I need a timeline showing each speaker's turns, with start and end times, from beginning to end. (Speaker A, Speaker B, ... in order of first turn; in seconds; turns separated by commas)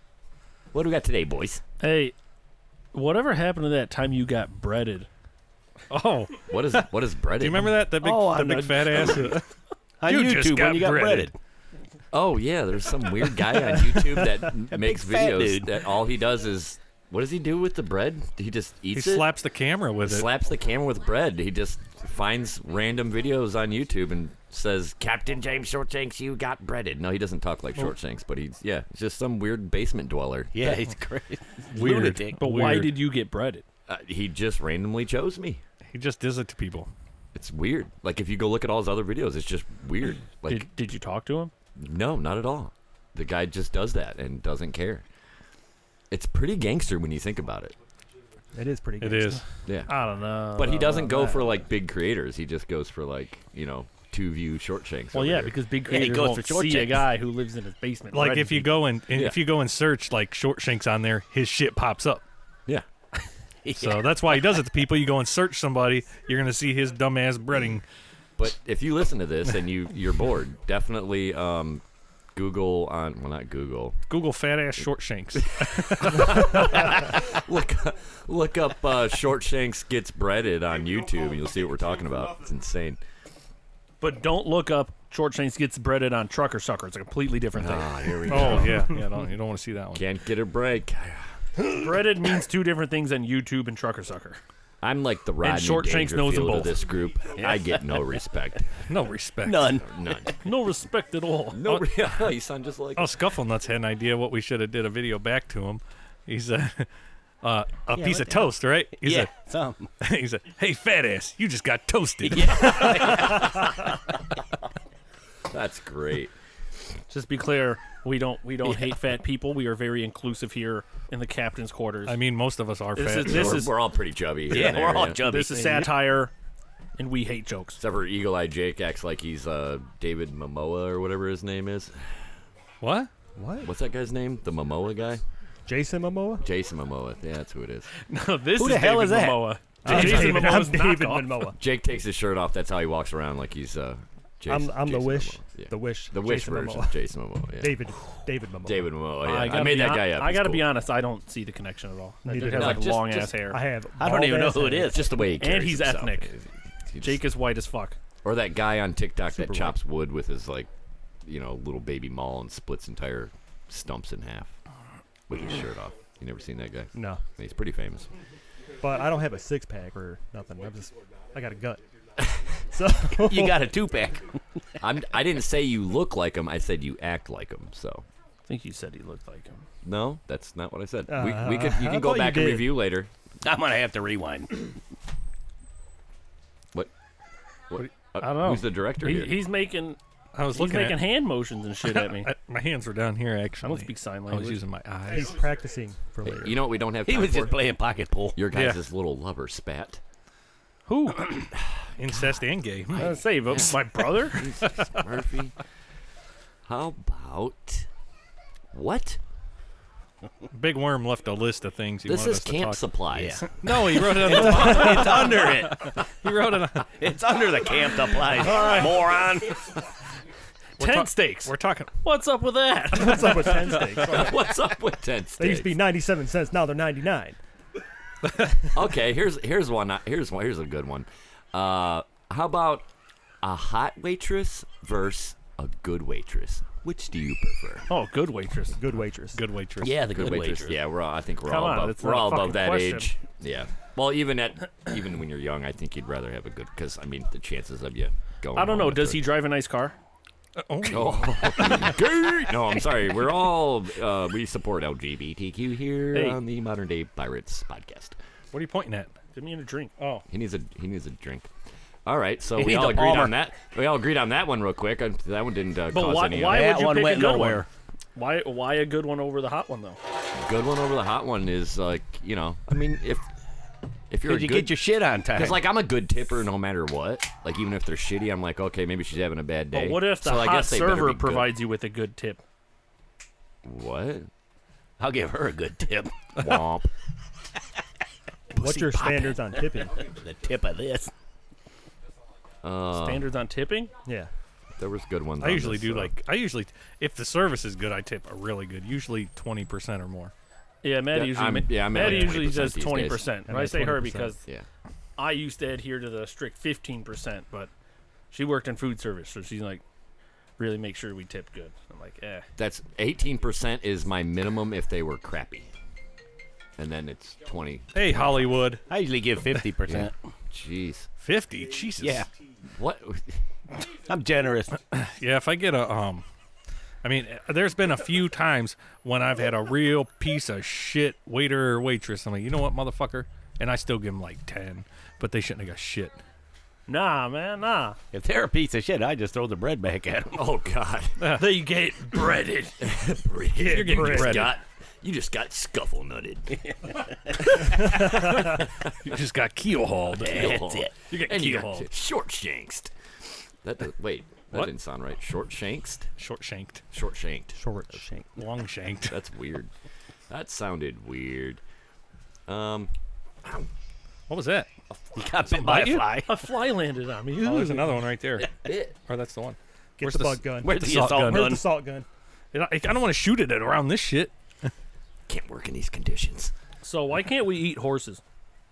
Speaker A: 0.7-1.6, Speaker B: 1.8-2.1, Speaker B: 2.9-5.1, Speaker C: 5.9-6.9, Speaker A: 6.5-7.8, Speaker C: 7.4-9.5, Speaker D: 8.0-9.4, Speaker D: 10.0-11.3, Speaker C: 10.0-11.3, Speaker A: 12.1-19.3, Speaker D: 14.7-15.7, Speaker C: 18.9-20.3, Speaker A: 20.0-30.7, Speaker D: 30.5-32.4, Speaker C: 31.7-33.0, Speaker B: 32.4-33.6, Speaker A: 33.9-35.6, Speaker C: 35.9-36.9, Speaker A: 37.3-40.7, Speaker B: 40.5-41.5, Speaker A: 41.8-45.0, Speaker A: 46.1-47.8, Speaker E: 48.5-49.4, Speaker C: 49.0-49.4, Speaker A: 49.6-49.9, Speaker B: 49.9-51.4, Speaker A: 50.5-55.5, Speaker B: 55.1-58.7, Speaker D: 55.9-57.1, Speaker C: 58.1-62.2, Speaker A: 59.1-59.4, Speaker D: 63.6-64.6, Speaker C: 63.7-67.8, Speaker A: 68.4-71.8, Speaker A: 72.3-74.0, Speaker C: 74.1-77.1, Speaker A: 75.3-83.0, Speaker B: 84.0-88.8, Speaker A: 87.6-88.9, Speaker C: 88.3-90.0, Speaker A: 89.9-91.3, Speaker B: 91.7-94.4, Speaker A: 94.8-98.9, Speaker B: 95.4-96.8, Speaker D: 97.4-98.0, Speaker C: 98.9-99.8, Speaker D: 99.4-99.9, Speaker A: 99.9-100.4, Speaker B: 100.4-101.8, Speaker A: 101.5-103.2, Speaker C: 103.0-106.9, Speaker C: 107.4-109.3, Speaker D: 107.9-109.9, Speaker C: 110.0-113.9, Speaker D: 112.2-113.8, Speaker A: 112.3-113.5, Speaker A: 115.5-116.3, Speaker B: 117.1-122.2, Speaker D: 118.6-119.0, Speaker C: 122.1-123.7, Speaker B: 122.9-123.7, Speaker A: 123.2-125.2, Speaker D: 124.5-126.0, Speaker B: 125.2-126.3, Speaker B: 127.0-127.8, Speaker A: 127.8-132.3, Speaker C: 132.8-133.1, Speaker E: 133.3-133.7, Speaker A: 133.6-135.2, Speaker E: 135.7-136.4, Speaker A: 136.4-137.9, Speaker B: 138.1-141.5, Speaker D: 138.6-139.5, Speaker E: 139.8-141.6, Speaker A: 139.8-140.6, Speaker A: 141.6-147.9, Speaker E: 144.5-147.0, Speaker E: 147.6-148.9, Speaker A: 148.6-150.6, Speaker B: 149.2-153.6, Speaker E: 152.2-154.9, Speaker A: 152.5-153.3, Speaker D: 154.0-155.1, Speaker A: 154.9-157.2, Speaker B: 155.4-156.3, Speaker B: 157.0-158.0, Speaker A: 158.2-160.7, Speaker D: 159.3-159.7, Speaker A: 161.2-164.5, Speaker A: 165.3-168.1, Speaker E: 166.9-167.2, Speaker E: 168.8-171.8, Speaker A: 172.2-172.4, Speaker E: 172.7-173.6, Speaker D: 173.2-174.4, Speaker A: 174.8-178.1, Speaker B: 178.5-179.6, Speaker A: 179.8-183.1, Speaker E: 181.1-182.8, Speaker D: 183.4-184.8, Speaker A: 187.7-189.4, Speaker B: 187.8-190.0, Speaker C: 190.3-191.0, Speaker B: 190.5-192.3, Speaker C: 191.8-195.5, Speaker B: 193.6-194.6, Speaker E: 195.0-196.7, Speaker A: 196.2-197.6, Speaker D: 197.0-198.4, Speaker A: 198.3-200.0, Speaker C: 198.5-198.8, Speaker B: 200.9-201.2, Speaker C: 202.0-203.2, Speaker A: 202.9-205.5, Speaker B: 202.9-204.6, Speaker A: 206.7-207.9, Speaker A: 208.7-209.2, Speaker C: 210.5-212.8, Speaker A: 212.0-215.1, Speaker D: 213.1-216.0, Speaker C: 213.4-217.0, Speaker D: 217.0-219.7, Speaker C: 218.3-218.9, Speaker B: 218.5-218.9, Speaker C: 220.8-221.9, Speaker B: 220.8-223.8, Speaker E: 222.9-224.5, Speaker A: 224.1-225.8, Speaker E: 225.4-227.4, Speaker A: 228.7-232.9, Speaker A: 233.4-237.9, Speaker B: 237.9-238.8, Speaker E: 238.8-239.4, Speaker C: 239.3-240.5, Speaker D: 239.8-240.8, Speaker A: 239.8-249.3, Speaker B: 241.5-243.1, Speaker B: 248.5-249.9, Speaker C: 250.6-252.0, Speaker A: 250.8-258.2, Speaker C: 258.5-259.1, Speaker B: 259.3-259.9, Speaker A: 260.3-261.5, Speaker A: 262.1-266.6, Speaker D: 262.6-263.3, Speaker B: 265.9-270.0, Speaker D: 266.4-267.7, Speaker A: 270.3-273.2, Speaker A: 274.1-274.8, Speaker D: 274.2-275.6, Speaker A: 275.3-281.5, Speaker B: 279.7-282.4, Speaker A: 283.6-284.3, Speaker D: 285.0-286.2, Speaker A: 286.4-286.9, Speaker E: 288.6-290.1, Speaker D: 288.6-291.1, Speaker A: 292.6-293.3, Speaker B: 292.9-293.9, Speaker E: 294.0-294.3, Speaker A: 294.8-296.1, Speaker C: 295.4-300.3, Speaker B: 300.8-304.4, Speaker A: 301.1-303.3, Speaker E: 302.0-302.3, Speaker E: 303.4-304.4, Speaker B: 305.2-307.7, Speaker B: 308.3-309.8, Speaker B: 310.6-312.4, Speaker A: 312.6-315.7, Speaker A: 316.8-318.2, Speaker C: 317.9-318.9, Speaker D: 318.9-320.1, Speaker C: 319.5-320.1, Speaker A: 320.5-321.1, Speaker C: 321.2-322.3, Speaker D: 322.0-322.3, Speaker A: 322.7-323.4, Speaker D: 323.9-324.8, Speaker C: 324.7-326.2, Speaker C: 327.0-336.2, Speaker B: 336.9-338.0, Speaker D: 338.1-340.4, Speaker A: 340.3-341.2, Speaker C: 341.2-341.4, Speaker B: 341.2-342.8, Speaker A: 342.8-346.6, Speaker E: 343.6-344.5, Speaker C: 343.6-344.6, Speaker D: 346.6-347.4, Speaker A: 347.7-349.1, Speaker C: 348.0-350.5, Speaker D: 350.2-350.9, Speaker A: 350.2-352.9, Speaker C: 351.1-351.9, Speaker A: 353.6-356.1, Speaker C: 356.2-356.8, Speaker A: 356.9-358.0, Speaker E: 357.6-358.4, Speaker C: 358.3-359.2, Speaker A: 359.1-359.7, Speaker A: 360.3-361.6, Speaker A: 362.5-362.9, Speaker C: 364.3-364.7, Speaker A: 364.9-365.5, Speaker D: 365.1-366.4, Speaker C: 365.6-366.1, Speaker B: 365.6-367.9, Speaker C: 367.3-368.5, Speaker A: 368.6-368.9, Speaker C: 369.0-371.5, Speaker E: 370.0-372.1, Speaker D: 370.6-371.6, Speaker C: 372.5-374.7, Speaker A: 375.3-376.5, Speaker B: 376.8-378.2